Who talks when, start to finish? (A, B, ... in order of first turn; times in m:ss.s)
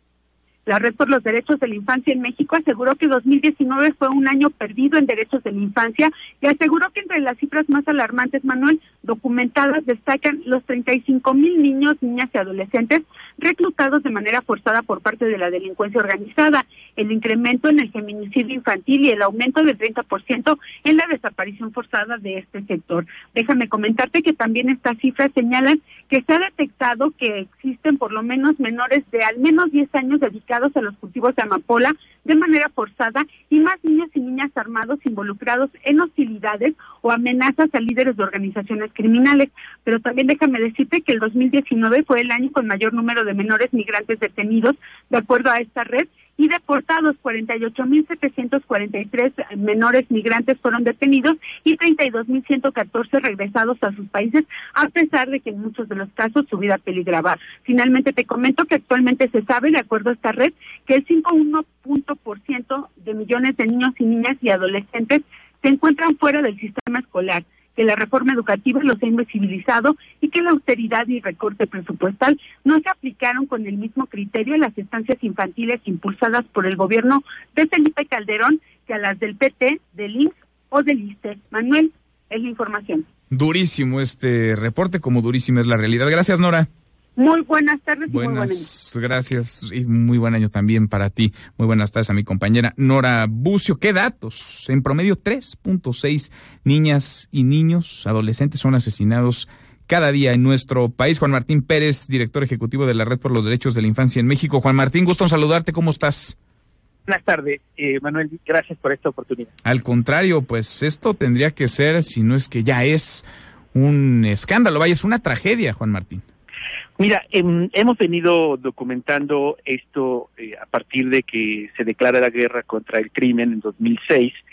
0:00.6-1:23.1 A
1:23.3-1:26.7 B
1:27.2-1:28.7 A
1:28.1-1:46.4 B
1:47.1-1:49.5 C
1:49.6-1:56.2 B
1:57.0-2:04.4 C